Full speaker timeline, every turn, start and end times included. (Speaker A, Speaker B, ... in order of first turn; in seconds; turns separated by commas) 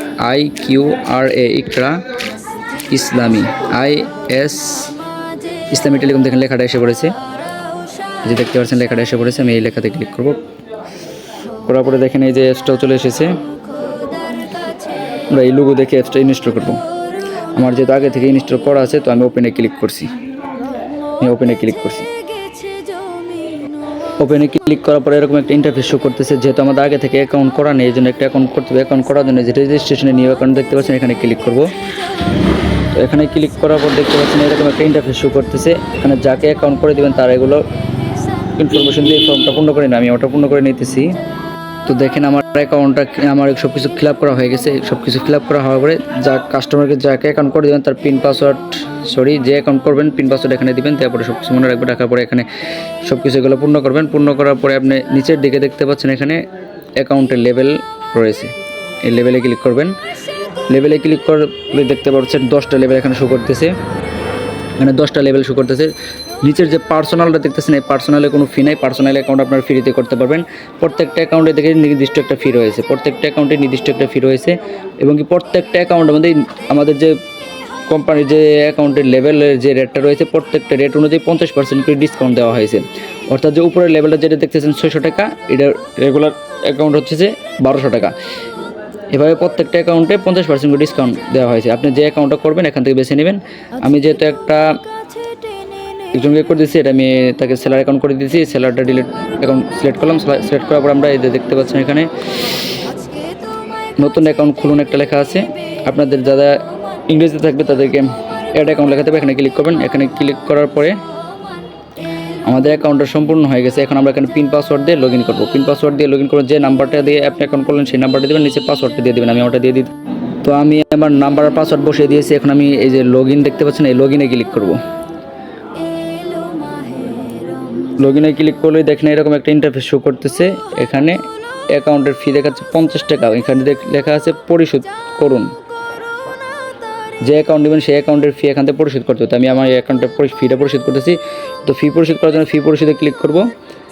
Speaker A: 0.2-2.0, Speaker A: 2.9-4.9, Speaker A: 5.7-7.1, Speaker A: 8.2-10.4, Speaker A: 11.7-13.4, Speaker A: 15.3-16.8, Speaker A: 17.5-20.1, Speaker A: 21.2-22.1, Speaker A: 24.2-31.7, Speaker A: 32.9-37.6, Speaker A: 38.6-41.1, Speaker A: 41.9-52.5, Speaker A: 53.0-56.4, Speaker A: 57.0-60.0, Speaker A: 60.7-63.7, Speaker A: 64.8-77.2, Speaker A: 77.9-88.1, Speaker A: 89.1-94.6, Speaker A: 96.1-102.1, Speaker A: 104.0-111.0, Speaker A: 112.5-119.9, Speaker A: 120.4-124.8, Speaker A: 128.0-135.5, Speaker A: 137.2-143.5